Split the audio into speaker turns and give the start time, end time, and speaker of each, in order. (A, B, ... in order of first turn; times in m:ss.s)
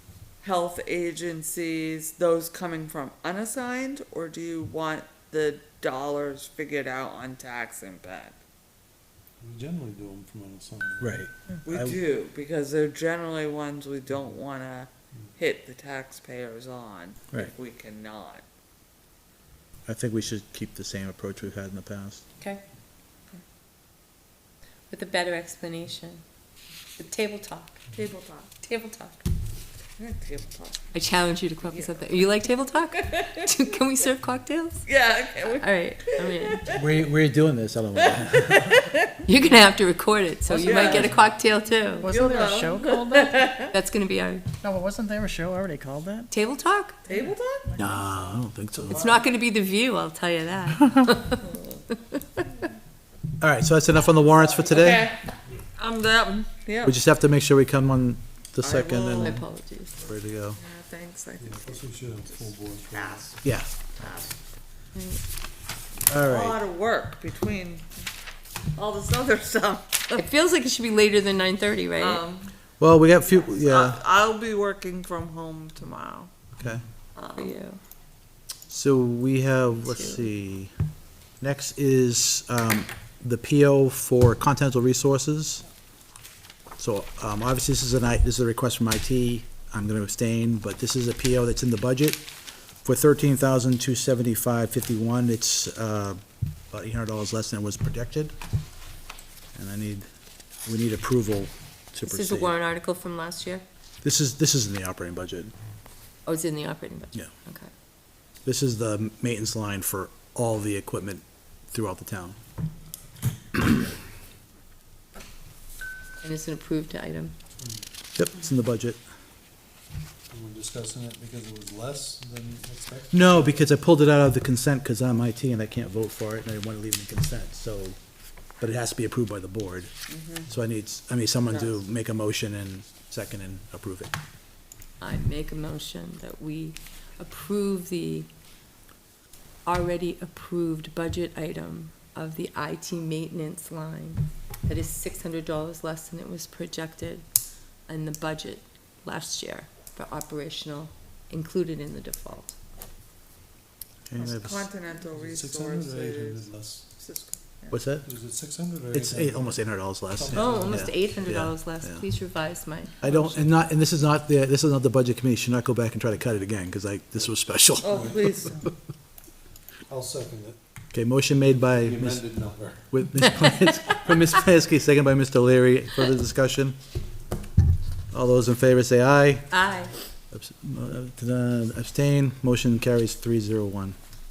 0:00.4-0:08.4 A
0:09.4-0:11.2 B
0:11.0-0:12.0 C
0:11.6-0:18.4 A
0:19.9-0:22.2 C
0:24.9-0:26.2 D
0:27.0-0:27.8 D
0:27.9-0:28.5 A
0:28.6-0:29.3 D
0:30.0-0:30.8 A
0:30.9-0:34.9 D
0:31.6-0:32.5 A
0:33.0-0:33.4 A
0:34.9-0:36.8 A
0:35.6-0:36.7 D
0:36.7-0:38.8 C
0:38.0-0:39.2 A
0:39.2-0:42.1 D
0:40.5-0:41.2 A
0:42.0-0:43.5 E
0:42.0-0:43.7 A
0:43.5-0:44.5 D
0:44.6-0:46.3 E
0:46.3-0:47.0 D
0:47.1-0:47.7 A
0:47.8-0:49.1 C
0:48.8-0:49.2 B
0:48.9-0:51.5 D
0:51.4-0:51.8 A
0:52.2-0:52.4 D
0:52.4-0:52.7 A
0:53.4-0:55.1 C
0:54.2-0:57.0 A
0:56.8-1:00.6 C
0:58.6-0:59.4 A
0:59.2-0:59.9 D
1:00.6-1:03.3 A
1:01.4-1:03.4 B
1:03.4-1:03.7 C
1:04.0-1:04.4 A
1:05.0-1:05.2 D
1:06.1-1:06.6 C
1:06.2-1:07.9 A
1:08.8-1:10.2 A
1:10.2-1:12.2 D
1:12.0-1:12.6 A
1:12.8-1:14.0 C
1:13.5-1:16.3 A
1:17.2-1:17.6 A
1:17.4-1:17.8 D
1:18.7-1:20.7 C
1:19.8-1:20.3 D
1:21.4-1:25.6 C
1:26.8-1:32.3 C
1:32.8-1:36.2 C
1:36.7-1:38.4 C
1:39.6-1:40.1 C
1:40.7-1:42.5 C
1:42.1-1:43.6 D
1:44.0-1:45.5 C
1:46.3-1:47.7 D
1:48.4-1:52.4 C
1:56.2-1:57.3 D
1:58.2-1:59.0 C
2:00.3-2:03.7 B
2:03.1-2:08.0 C
2:08.6-2:09.9 C
2:10.1-2:10.5 A
2:10.5-2:14.1 C
2:15.0-2:18.3 D
2:19.7-2:27.2 D
2:27.9-2:32.6 D
2:34.1-2:34.7 C
2:34.2-2:37.8 A
2:35.1-2:36.9 B
2:37.7-2:38.1 C
2:38.0-2:41.0 B
2:38.9-2:42.0 C
2:40.3-2:43.0 D
2:43.0-2:48.2 C
2:43.1-2:43.6 B
2:47.8-2:48.7 A
2:47.9-2:48.2 B
2:49.9-2:50.6 B
2:50.9-2:52.3 C
2:51.7-2:52.8 B
2:52.9-2:56.8 C
2:58.1-2:59.6 C
2:59.5-3:00.0 D
3:00.3-3:04.0 C